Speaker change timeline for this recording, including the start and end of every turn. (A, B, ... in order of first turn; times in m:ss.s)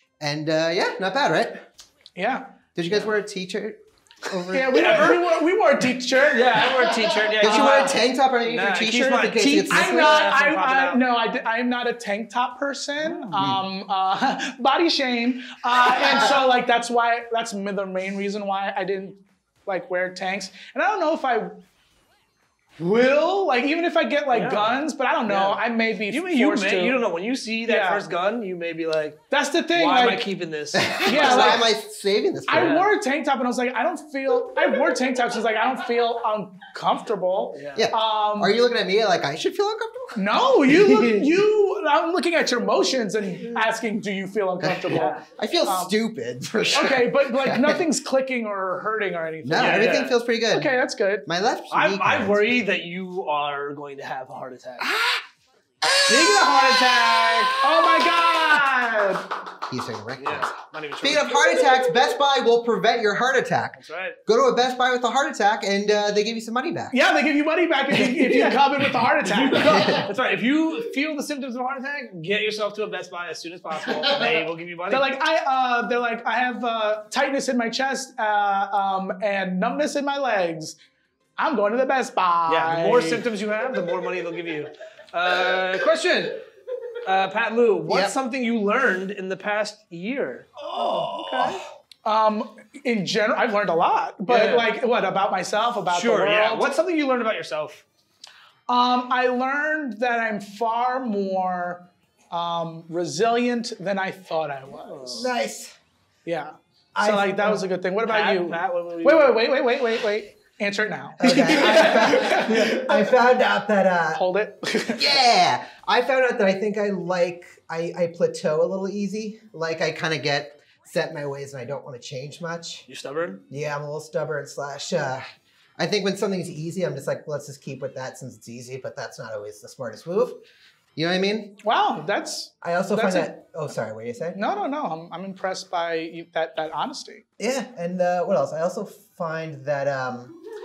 0:00.2-0:01.6 A
0:02.2-0:02.5 B
0:02.8-0:05.2 A
0:02.9-0:03.1 C
0:04.5-0:08.0 B
0:04.7-0:05.2 C
0:06.2-0:11.0 C
0:07.4-0:10.3 A
0:09.7-0:21.6 B
0:13.0-0:13.3 C
0:13.3-0:13.7 A
0:16.0-0:16.4 A
0:22.8-0:27.0 B
0:24.3-0:29.2 C
0:27.6-0:28.1 B
0:29.3-0:30.3 B
0:29.7-0:31.7 C
0:30.7-0:32.8 A
0:31.0-0:31.7 B
0:32.5-0:38.6 B
0:32.5-0:32.9 C
0:37.5-0:37.9 C
0:37.8-0:41.3 A
0:40.2-0:46.0 B
0:44.6-0:47.8 A
0:44.9-0:45.2 C
0:46.7-0:51.3 B
0:49.4-0:50.7 A
0:49.5-0:50.2 C
0:51.3-0:52.6 A
0:51.7-0:54.9 C
0:54.8-0:55.2 A
0:55.8-0:57.4 A
0:56.1-0:57.6 C
0:57.6-0:59.3 B
0:59.7-1:07.0 A
1:00.2-1:01.8 C
1:03.8-1:04.2 C
1:06.9-1:10.1 B
1:08.0-1:08.6 C
1:09.2-1:15.1 C
1:09.5-1:10.1 A
1:14.9-1:20.8 B
1:21.4-1:23.2 B
1:22.5-1:26.4 C
1:27.0-1:31.6 C
1:27.9-1:28.2 A
1:31.2-1:31.6 A
1:32.0-1:36.8 B
1:34.3-1:34.7 C
1:35.9-1:37.8 C
1:38.7-1:45.3 B
1:44.8-1:45.3 C
1:45.2-1:45.8 A
1:46.2-1:53.2 B
1:47.0-1:47.7 A
1:48.0-1:49.4 C
1:51.2-1:54.2 A
1:51.4-1:52.4 C
1:54.2-1:55.2 B
1:54.9-2:02.9 A
2:02.9-2:03.4 C
2:03.5-2:05.2 A
2:05.8-2:10.4 A
2:11.0-2:11.6 A
2:11.6-2:13.3 B
2:12.6-2:14.4 A
2:14.3-2:17.2 B
2:17.4-2:20.3 A